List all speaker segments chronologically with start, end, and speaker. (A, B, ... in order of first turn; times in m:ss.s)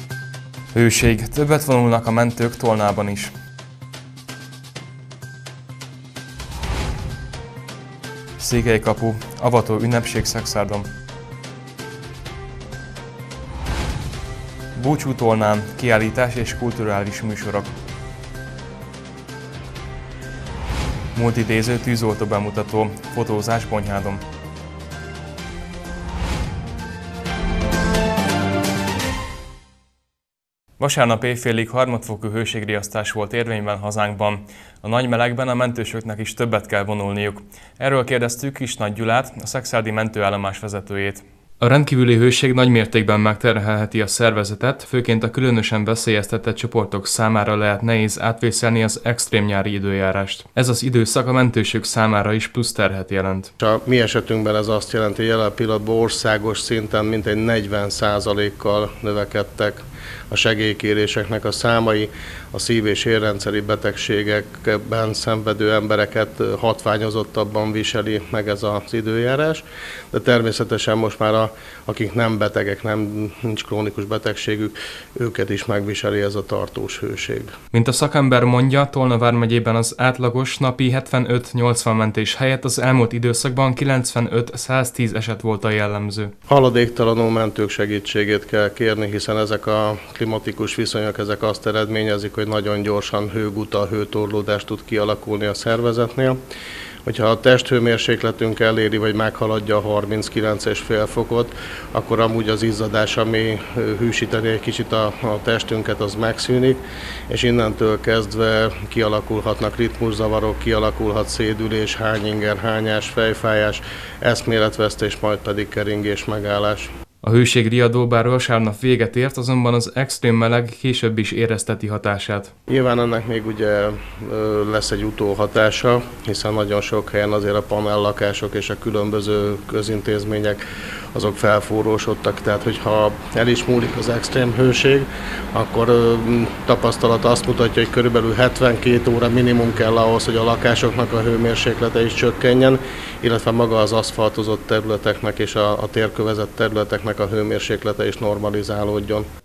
0:00.7-0:03.3 A
0:08.4-0:10.9 A
0:14.8-0:17.7 A
0:21.2-0:24.2 A
0:30.8-0:53.5 A
0:53.6-1:17.5 B
1:17.7-1:26.3 A
1:26.5-1:36.4 B
1:37.0-1:56.9 B
1:57.2-2:02.5 A
2:02.7-2:10.6 B
2:11.1-2:29.3 B